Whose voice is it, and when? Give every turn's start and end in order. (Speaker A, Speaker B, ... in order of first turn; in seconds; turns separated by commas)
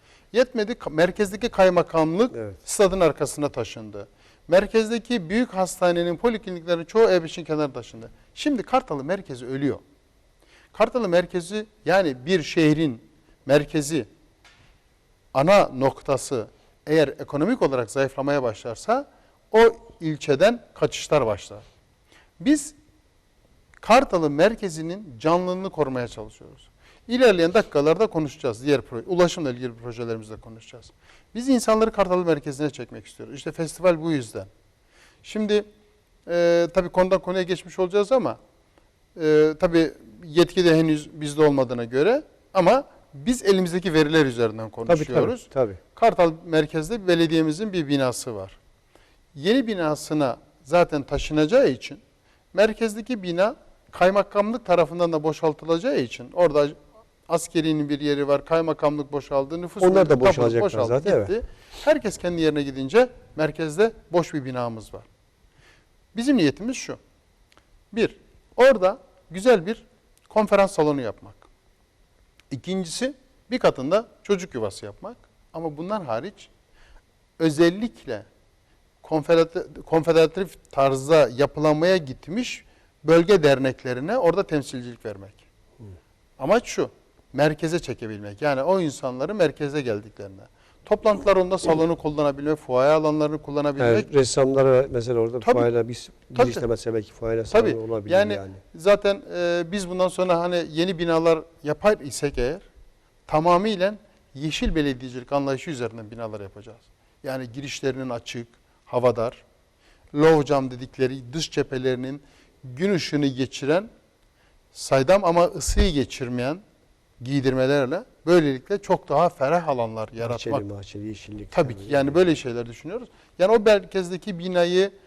Speaker A: 0.3-9.8, Speaker B: 2.3-2.6, Speaker A: 10.7-14.1, Speaker A: 15.3-21.6, Speaker A: 22.4-22.8, Speaker A: 23.8-34.5, Speaker A: 35.2-35.6, Speaker A: 36.2-38.4, Speaker A: 39.1-48.6, Speaker B: 44.9-45.8, Speaker A: 49.3-52.0, Speaker A: 52.5-56.8, Speaker A: 57.3-65.1, Speaker B: 59.8-61.3, Speaker A: 66.1-67.0, Speaker A: 67.9-71.4, Speaker A: 72.5-76.5, Speaker A: 77.4-78.3, Speaker A: 79.0-85.4, Speaker A: 86.4-94.1, Speaker B: 93.8-98.6, Speaker A: 95.4-95.7, Speaker A: 96.3-96.6, Speaker A: 97.5-102.7, Speaker A: 103.3-109.4, Speaker A: 110.1-113.9, Speaker A: 114.7-116.6, Speaker A: 117.2-120.6, Speaker B: 120.2-122.1, Speaker A: 121.5-124.9